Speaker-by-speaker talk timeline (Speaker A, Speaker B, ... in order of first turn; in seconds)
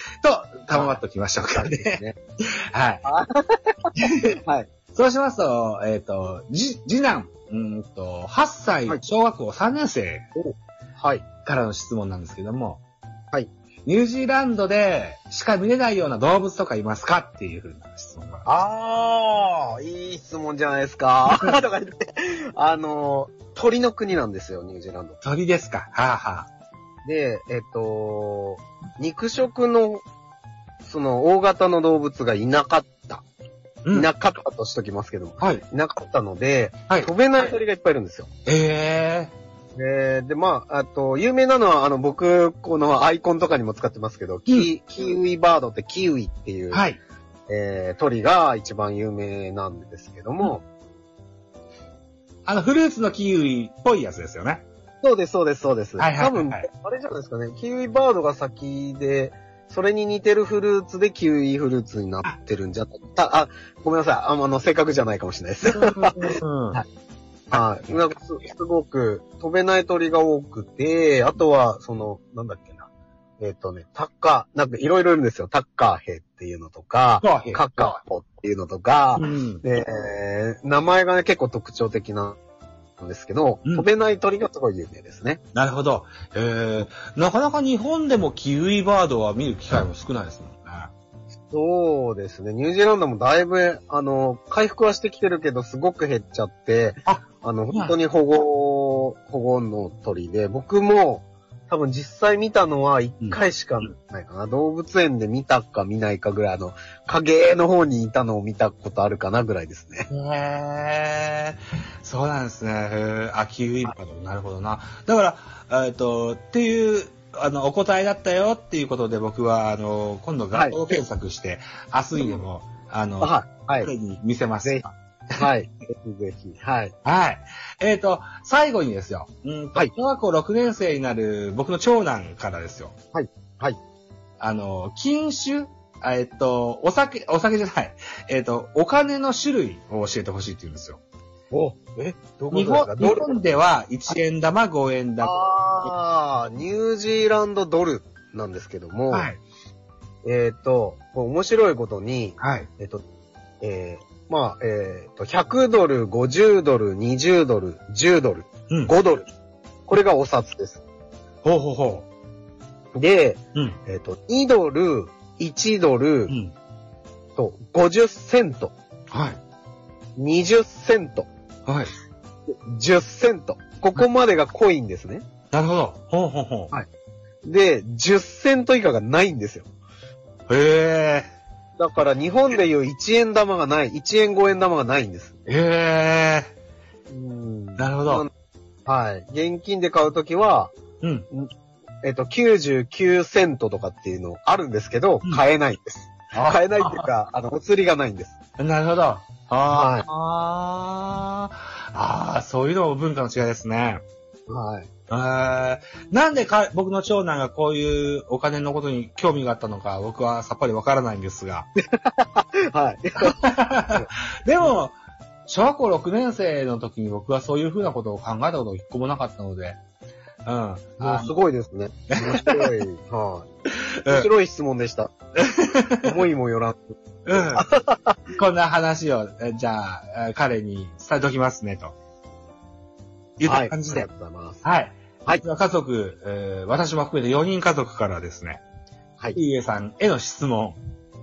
Speaker A: 0.2-3.0, 4.0-4.4, 5.0-10.3, 11.4-12.8, 13.9-18.5, 25.2-26.5, 38.5-39.3, 46.7-47.0, 52.5-54.6, 56.0-56.7, 65.7-66.8, 77.2-78.0, 79.2-79.6, 85.5-90.9, 97.1-98.0, 110.1-124.9, 127.0-132.9, 134.4-141.0, 142.5-145.4, 149.1-149.4, 152.4-152.7, 161.4-162.1, 166.3-166.5, 169.1-169.4, 171.7-171.9, 175.5-176.7, 180.5-181.3, 185.5-186.5, 187.8-188.2, 191.0-191.3, 196.4-197.0, 198.6-204.0, 205.1-211.7, 213.2-214.9, 215.5-219.8, 220.4-221.3, 222.1-222.7, 224.0-224.3, 225.4-226.2, 227.3-227.7, 228.3-231.9, 233.4-234.1, 234.6-238.6, 239.3-240.8
Speaker B: 1.6-2.2, 3.0-4.7, 10.4-11.2, 18.4-25.2, 27.1-30.0, 30.8-33.2, 33.9-38.3, 39.8-46.9, 47.5-50.6, 55.0-66.8, 67.5-72.9, 73.4-82.4, 83.0-85.4, 91.5-110.1, 120.5-120.8, 123.2-123.9, 124.6-126.9, 133.1-133.8, 141.5-143.4, 145.2-149.3, 150.2-153.0, 153.6-159.3, 159.9-160.8, 162.9-166.3, 167.4-168.7, 170.2-171.3, 172.5-175.2, 177.4-179.7, 181.8-185.3, 187.1-188.3, 188.9-190.7, 192.0-198.4, 199.7-200.1, 204.5-204.9, 211.8-214.1, 221.0-223.5, 224.1-225.1, 226.0-228.2, 233.4-234.6